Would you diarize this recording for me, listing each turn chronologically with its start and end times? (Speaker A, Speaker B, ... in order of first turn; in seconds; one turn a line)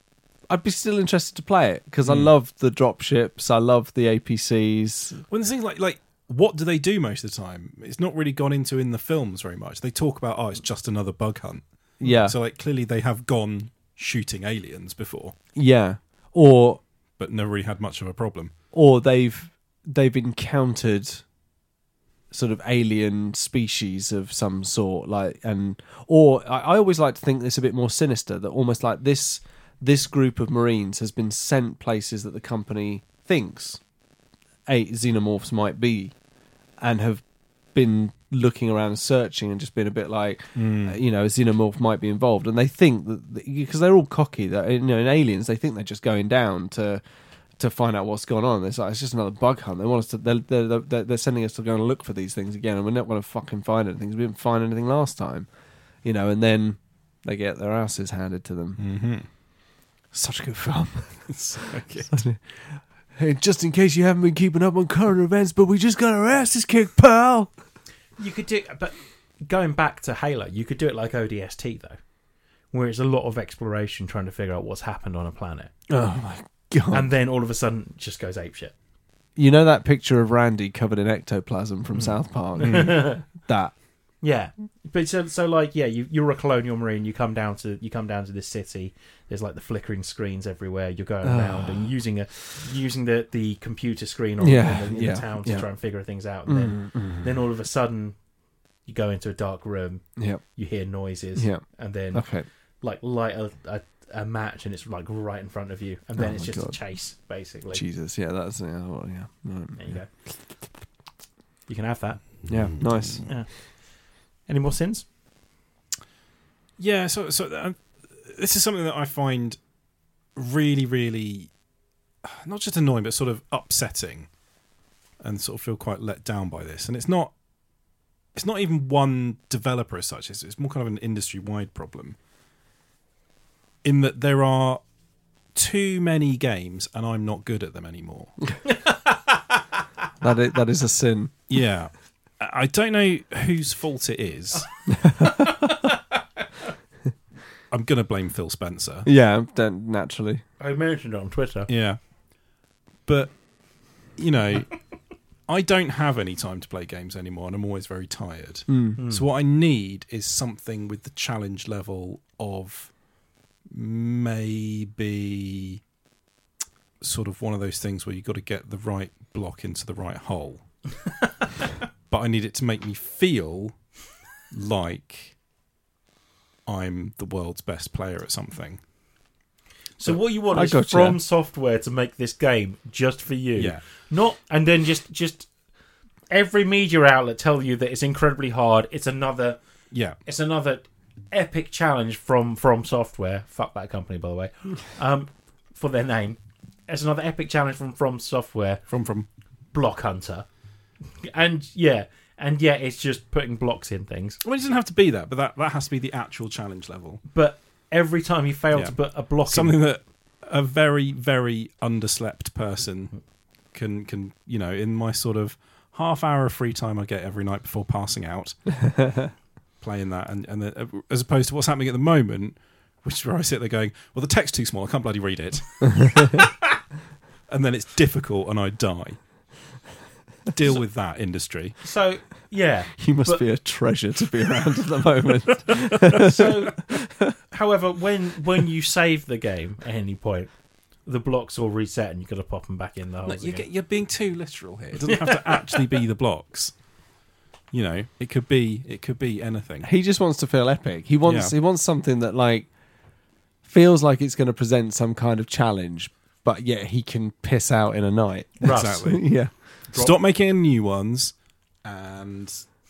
Speaker A: 0.5-5.2
Speaker B: 2.0-2.3
Speaker B: 5.3-15.3
Speaker A: 12.0-12.3
Speaker A: 15.5-16.8
Speaker B: 17.2-18.5
Speaker A: 18.7-21.2
Speaker A: 22.3-33.8
Speaker A: 34.7-36.1
Speaker A: 36.8-37.2
Speaker A: 37.7-47.0
Speaker B: 40.5-41.0
Speaker A: 47.6-55.5
Speaker A: 56.0-58.8
Speaker B: 58.8-59.3
Speaker A: 60.1-61.3
Speaker B: 61.3-62.2
Speaker A: 62.0-67.5
Speaker C: 68.2-72.0
Speaker C: 72.7-75.7
Speaker A: 75.9-77.1
Speaker C: 76.9-78.7
Speaker A: 79.3-83.7
Speaker C: 81.9-83.2
Speaker B: 82.6-82.9
Speaker C: 84.2-98.2
Speaker A: 91.2-91.9
Speaker A: 94.4-95.7
Speaker A: 96.5-97.2
Speaker C: 98.8-102.3
Speaker A: 100.2-100.4
Speaker A: 101.3-102.4
Speaker C: 102.8-107.8
Speaker A: 106.2-106.8
Speaker A: 107.7-110.0
Speaker C: 109.8-110.1
Speaker C: 111.7-112.5
Speaker A: 112.5-113.2
Speaker B: 112.5-113.2
Speaker C: 113.2-113.7
Speaker C: 114.5-115.1
Speaker B: 116.8-119.6
Speaker B: 120.3-121.5
Speaker B: 122.2-124.3
Speaker B: 125.2-127.3
Speaker B: 128.3-132.2
Speaker B: 133.8-134.8
Speaker B: 135.5-138.3
Speaker C: 138.7-139.4
Speaker A: 140.2-141.3
Speaker B: 141.5-144.7
Speaker A: 144.9-145.5
Speaker C: 145.2-145.9
Speaker B: 147.7-149.1
Speaker A: 149.0-150.4
Speaker C: 150.6-151.7
Speaker B: 151.7-152.0
Speaker B: 153.1-153.4
Speaker B: 154.1-154.7
Speaker B: 155.5-162.9
Speaker A: 158.7-159.0
Speaker C: 159.0-159.2
Speaker B: 163.7-165.8
Speaker B: 167.0-170.6
Speaker B: 172.1-173.8
Speaker B: 174.5-175.3
Speaker B: 176.7-178.8
Speaker C: 180.0-185.5
Speaker A: 180.5-181.2
Speaker B: 183.6-183.8
Speaker C: 186.3-189.6
Speaker B: 189.9-190.2
Speaker C: 190.2-198.8
Speaker B: 198.9-199.3
Speaker C: 199.7-200.4
Speaker C: 201.2-204.4
Speaker B: 204.4-207.2
Speaker C: 207.3-209.8
Speaker B: 208.7-213.1
Speaker B: 213.7-219.2
Speaker B: 219.8-226.5
Speaker B: 227.5-229.2
Speaker B: 230.5-231.8
Speaker C: 231.8-233.4
Speaker A: 233.0-237.3
Speaker B: 235.7-236.4
Speaker C: 236.1-240.5
Speaker C: 241.1-243.6
Speaker B: 243.2-246.7
Speaker C: 245.0-245.8
Speaker B: 247.7-249.9
Speaker A: 249.8-252.7
Speaker B: 251.2-251.5
Speaker A: 253.6-259.5
Speaker C: 258.6-259.2
Speaker B: 258.6-259.2
Speaker C: 259.9-260.2
Speaker B: 259.9-262.7